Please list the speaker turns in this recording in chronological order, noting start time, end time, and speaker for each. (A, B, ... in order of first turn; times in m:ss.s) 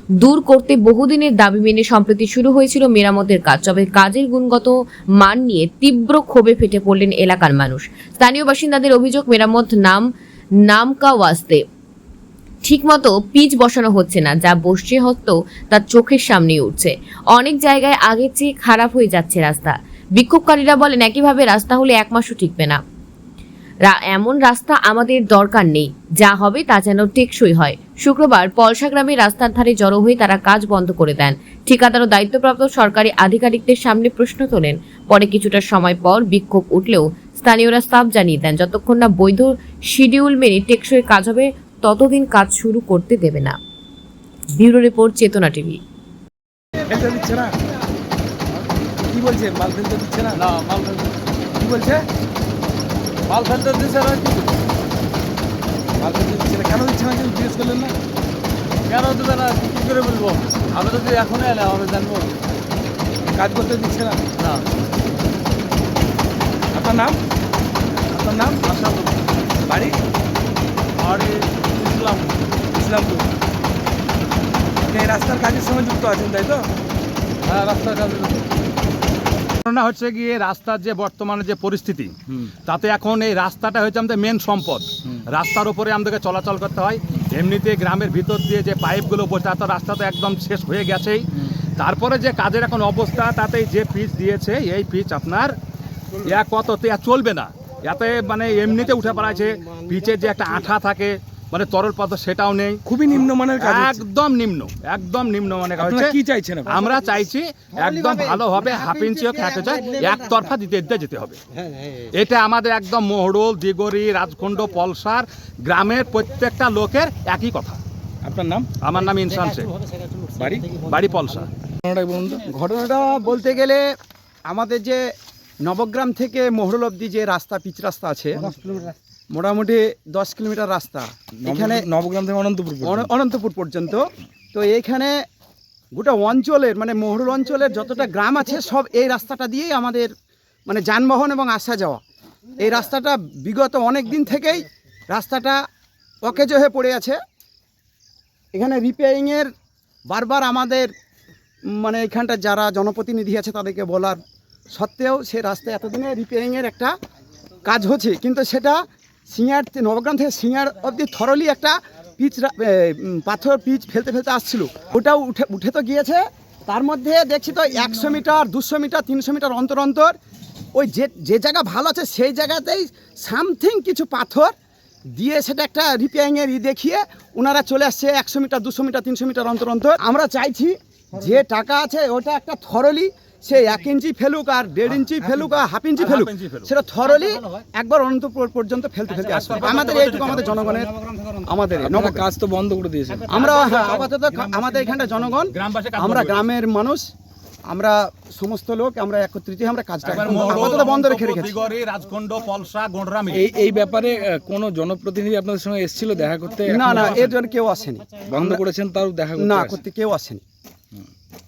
0:00.2-0:10.0 A
0:10.6-0:11.6 A
0:12.6-0:22.8 A
0:23.9-0:43.6 A
0:44.5-0:45.8 A
0:46.8-0:47.5 B
0:49.1-0:50.4 B
0:50.4-0:51.1 C
0:51.6-0:52.0 B
0:53.3-0:54.6 C
0:56.0-0:58.0 B
0:58.9-1:02.3 C
1:03.3-1:04.2 B
1:06.7-1:07.2 B
1:08.1-1:08.6 B
1:08.7-1:09.0 C
1:09.6-1:10.0 B
1:11.0-1:12.3 C
1:12.7-1:13.3 B
1:14.9-1:16.7 B
1:17.4-1:18.4 C
1:19.6-1:35.6 D
1:36.2-1:42.8 D
1:42.8-1:44.0 B
1:43.6-1:51.4 D
1:45.8-1:46.8 B
1:47.8-1:50.3 E
1:52.1-1:57.8 D
1:58.2-1:58.7 B
1:58.8-1:59.7 D
2:00.3-2:00.8 B
2:00.8-2:01.5 D
2:01.8-2:02.4 B
2:02.5-2:03.8 E
2:04.5-2:05.1 E
2:05.6-2:11.8 E
2:11.4-2:13.1 B
2:12.8-2:15.2 E
2:15.9-2:20.1 E
2:20.7-2:22.0 E
2:22.6-2:25.6 E
2:26.2-2:27.2 E
2:28.5-2:29.5 E
2:30.1-2:30.9 E
2:31.7-2:34.2 E
2:34.7-2:36.9 E
2:37.6-2:50.1 E
2:50.7-2:54.5 E
2:55.2-3:12.2 E
3:06.0-3:06.7 D
3:09.3-3:10.6 D
3:11.8-3:13.4 B
3:13.3-3:17.1 E
3:15.5-3:16.4 D
3:17.7-3:21.5 E
3:20.0-3:23.5 D
3:23.3-3:27.2 B
3:26.6-3:28.6 E
3:26.8-3:27.4 D
3:28.2-3:29.8 B
3:29.4-3:30.4 E